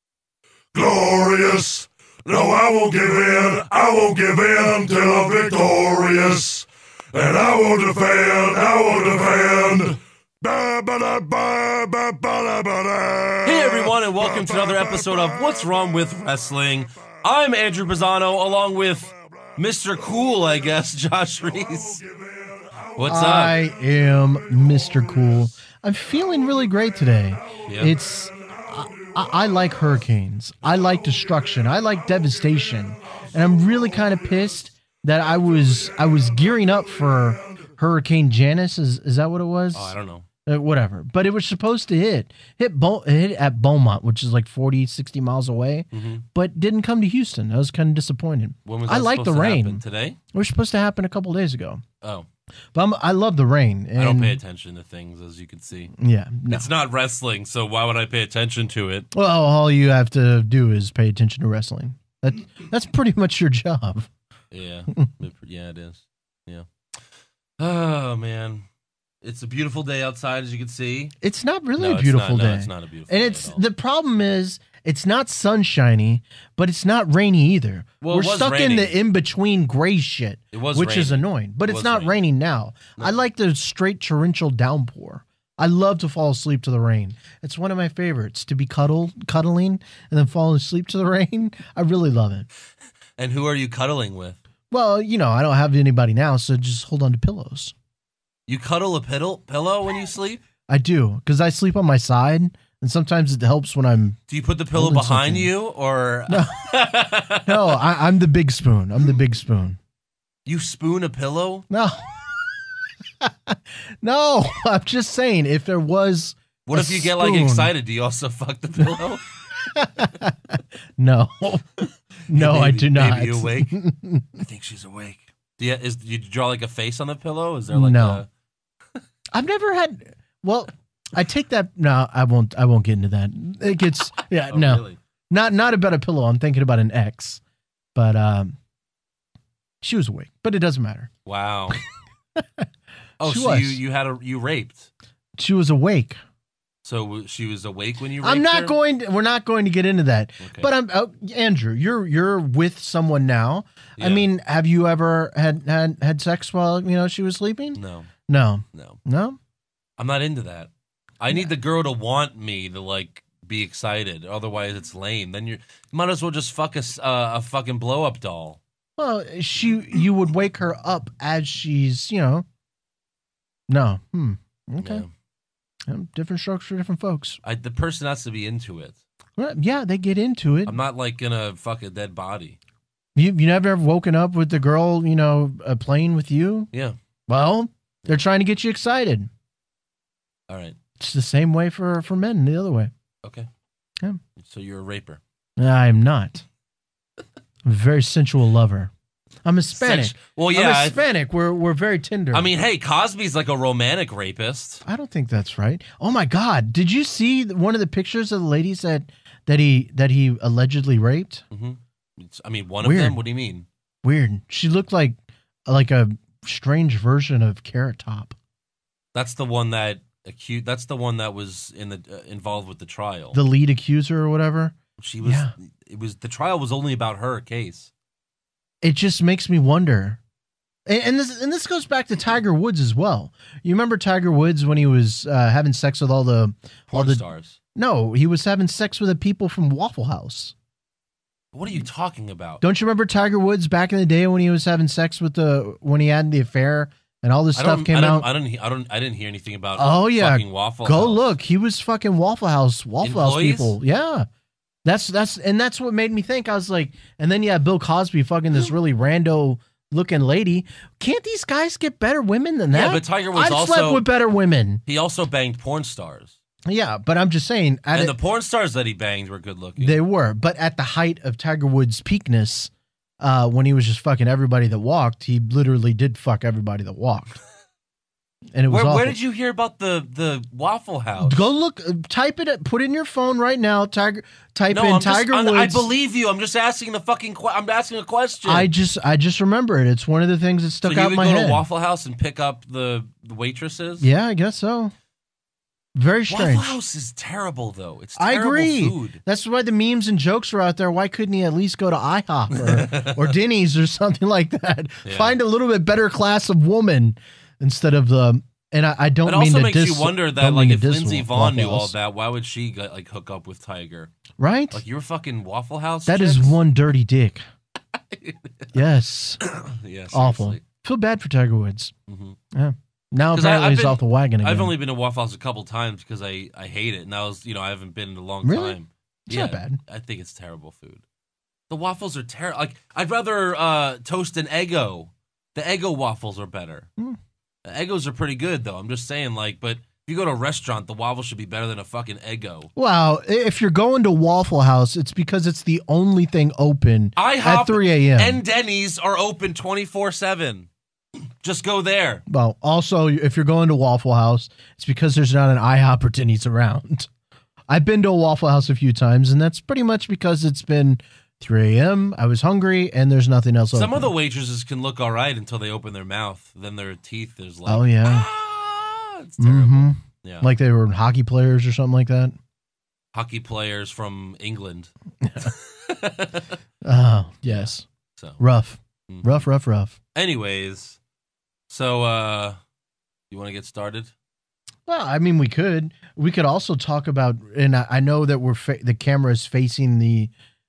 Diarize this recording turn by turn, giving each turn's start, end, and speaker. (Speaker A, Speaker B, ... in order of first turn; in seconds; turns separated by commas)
Speaker A: 0.7-15.8, Speaker B: 13.4-22.0, Speaker A: 21.6-23.0, Speaker B: 22.9-23.6, Speaker C: 23.1-39.9, Speaker A: 23.7-25.4, Speaker A: 27.6-29.9, Speaker B: 27.6-27.9, Speaker A: 30.8-34.3, Speaker A: 35.5-37.6, Speaker B: 39.7-40.2, Speaker C: 40.5-49.8, Speaker B: 45.9-46.2, Speaker B: 48.6-50.2, Speaker C: 50.3-51.8, Speaker B: 52.0-52.2, Speaker C: 52.7-54.4, Speaker B: 54.0-55.9, Speaker C: 56.0-56.7, Speaker B: 56.5-59.1, Speaker C: 59.1-64.1, Speaker B: 64.5-67.0, Speaker B: 67.6-68.7, Speaker B: 69.2-71.1, Speaker C: 71.2-92.5, Speaker B: 71.8-73.6, Speaker B: 78.0-78.9, Speaker B: 80.5-82.1, Speaker B: 93.2-94.4, Speaker C: 94.7-97.7, Speaker B: 98.5-100.4, Speaker C: 100.7-104.2, Speaker B: 104.3-107.8, Speaker C: 104.7-105.5, Speaker C: 106.3-106.7, Speaker C: 107.4-109.8, Speaker B: 110.5-111.7, Speaker C: 111.7-112.2, Speaker C: 113.2-117.7, Speaker B: 116.7-119.3, Speaker C: 119.6-124.3, Speaker B: 122.3-123.8, Speaker B: 124.3-128.3, Speaker C: 127.7-128.2, Speaker C: 129.3-137.4, Speaker B: 134.4-135.0, Speaker C: 137.9-138.6, Speaker C: 139.8-141.1, Speaker B: 141.2-141.8, Speaker C: 142.3-142.7, Speaker B: 143.2-144.9, Speaker C: 143.2-143.8, Speaker C: 145.4-146.2, Speaker B: 146.8-148.8, Speaker C: 148.2-159.4, Speaker B: 150.4-150.7, Speaker B: 154.0-154.3, Speaker B: 157.8-158.1, Speaker B: 158.7-159.0, Speaker B: 160.0-168.6, Speaker C: 169.0-172.4, Speaker C: 173.7-175.0, Speaker B: 174.8-175.1, Speaker C: 175.9-177.4, Speaker B: 177.4-179.0, Speaker C: 179.4-180.8, Speaker B: 180.7-182.6, Speaker C: 183.1-186.7, Speaker C: 187.3-189.3, Speaker B: 190.5-190.8, Speaker C: 191.0-192.9, Speaker B: 193.2-193.5, Speaker B: 194.3-195.2, Speaker C: 195.6-196.4, Speaker C: 197.6-198.9, Speaker C: 199.4-202.5, Speaker B: 199.7-201.0, Speaker B: 202.3-204.8, Speaker C: 204.8-211.4, Speaker B: 211.5-213.7, Speaker C: 212.8-213.2, Speaker C: 214.0-218.3, Speaker B: 219.1-223.4, Speaker C: 223.3-225.5, Speaker B: 225.0-227.9, Speaker C: 228.8-230.2, Speaker C: 230.8-237.2, Speaker B: 236.9-237.6, Speaker C: 237.7-240.5, Speaker B: 241.5-242.6, Speaker C: 242.6-248.3, Speaker B: 247.5-251.2, Speaker C: 249.8-254.3, Speaker B: 253.0-253.8, Speaker C: 254.8-264.8, Speaker B: 262.7-264.0, Speaker B: 264.9-266.4, Speaker C: 266.6-268.1, Speaker B: 267.9-270.0, Speaker C: 269.8-277.4, Speaker C: 278.5-279.1, Speaker B: 278.7-281.4, Speaker C: 281.2-285.9, Speaker B: 284.7-288.7, Speaker C: 288.4-291.6, Speaker B: 290.9-294.1, Speaker C: 294.0-294.9, Speaker C: 295.9-296.7, Speaker B: 296.3-299.2, Speaker C: 298.2-311.9, Speaker B: 302.5-303.3, Speaker B: 305.0-305.3, Speaker B: 309.2-314.1, Speaker C: 314.4-314.8, Speaker B: 314.7-316.6, Speaker C: 316.1-317.4, Speaker B: 317.9-318.8, Speaker C: 318.7-319.4, Speaker B: 319.4-320.6, Speaker C: 320.1-321.9, Speaker B: 322.1-322.4, Speaker C: 322.5-324.7, Speaker B: 323.3-331.0, Speaker C: 328.4-328.8, Speaker C: 329.3-329.8, Speaker B: 331.7-336.9, Speaker B: 337.6-342.7, Speaker C: 342.8-348.4, Speaker B: 347.1-350.7, Speaker B: 351.4-352.2, Speaker C: 352.3-357.1, Speaker C: 357.7-364.1, Speaker B: 363.7-370.5, Speaker C: 367.7-368.3, Speaker C: 369.4-372.4, Speaker B: 373.1-376.5, Speaker C: 375.2-375.5, Speaker C: 376.8-377.9, Speaker B: 377.4-378.4, Speaker C: 378.4-379.9, Speaker B: 379.1-379.5, Speaker B: 380.1-381.0, Speaker B: 381.7-382.6, Speaker B: 383.3-384.1, Speaker C: 384.9-390.3